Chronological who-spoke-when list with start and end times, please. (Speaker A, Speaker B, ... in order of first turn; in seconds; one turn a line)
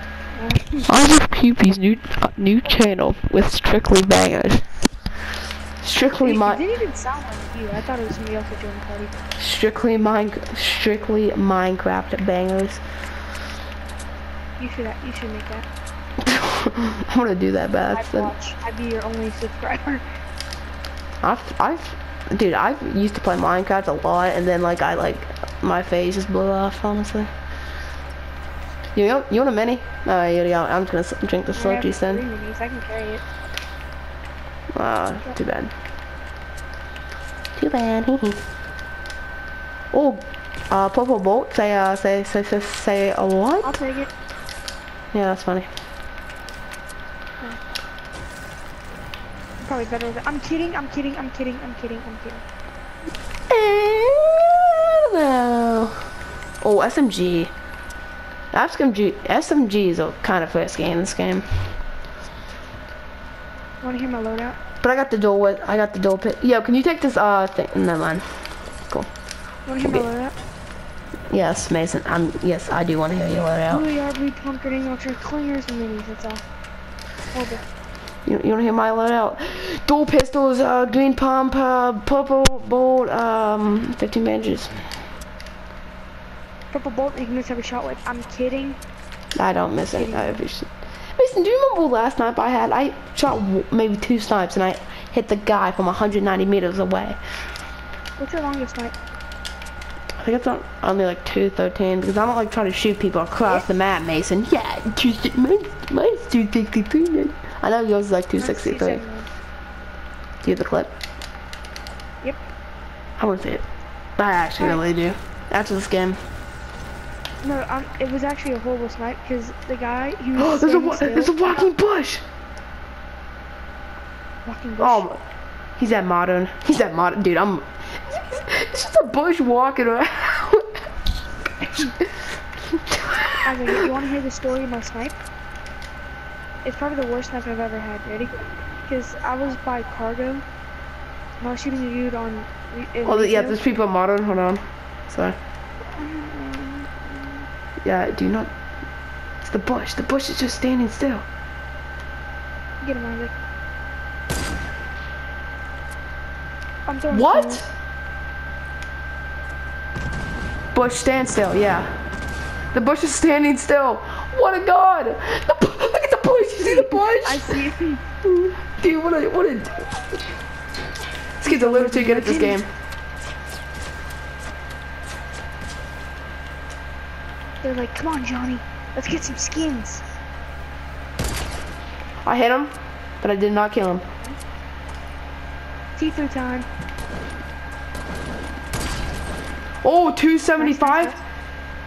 Speaker A: 0.3-0.9
Speaker B: 0.8-4.7
Speaker B: 5.8-6.6
Speaker A: 6.2-9.2
Speaker B: 9.4-12.8
Speaker A: 14.6-15.7
Speaker B: 16.2-18.3
Speaker A: 17.9-20.0
Speaker B: 21.2-27.3
Speaker B: 28.9-32.2
Speaker A: 31.5-33.2
Speaker B: 34.7-35.7
Speaker B: 37.5-38.4
Speaker B: 39.9-43.8
Speaker A: 43.6-44.1
Speaker B: 45.1-45.7
Speaker A: 49.6-52.4
Speaker B: 53.5-56.1
Speaker B: 56.6-57.5
Speaker B: 58.5-61.5
Speaker A: 63.8-64.6
Speaker B: 64.8-69.1
Speaker A: 69.7-70.3
Speaker B: 71.3-73.8
Speaker A: 73.7-76.4
Speaker A: 77.3-77.6
Speaker B: 78.2-84.8
Speaker A: 86.7-88.8
Speaker B: 89.3-97.2
Speaker A: 89.9-90.4
Speaker A: 98.2-98.9
Speaker B: 100.2-109.0
Speaker A: 108.4-109.3
Speaker B: 110.4-110.9
Speaker B: 113.2-113.6
Speaker B: 114.2-116.2
Speaker A: 117.4-121.7
Speaker B: 120.3-122.2
Speaker A: 124.4-125.1
Speaker B: 124.8-125.2
Speaker B: 125.8-130.7
Speaker B: 131.6-133.8
Speaker A: 133.4-135.2
Speaker A: 136.6-140.4
Speaker A: 141.4-143.6
Speaker B: 143.0-145.3
Speaker A: 145.9-147.4
Speaker B: 147.8-148.5
Speaker B: 149.4-151.2
Speaker A: 152.8-153.3
Speaker A: 156.8-157.6
Speaker B: 157.1-157.6
Speaker B: 160.7-161.9
Speaker B: 162.7-167.6
Speaker A: 166.6-168.0
Speaker B: 168.2-170.2
Speaker B: 171.4-172.7
Speaker A: 171.4-172.6
Speaker A: 177.6-180.0
Speaker B: 182.2-184.0
Speaker A: 185.9-186.7
Speaker B: 189.8-191.2
Speaker A: 190.6-191.1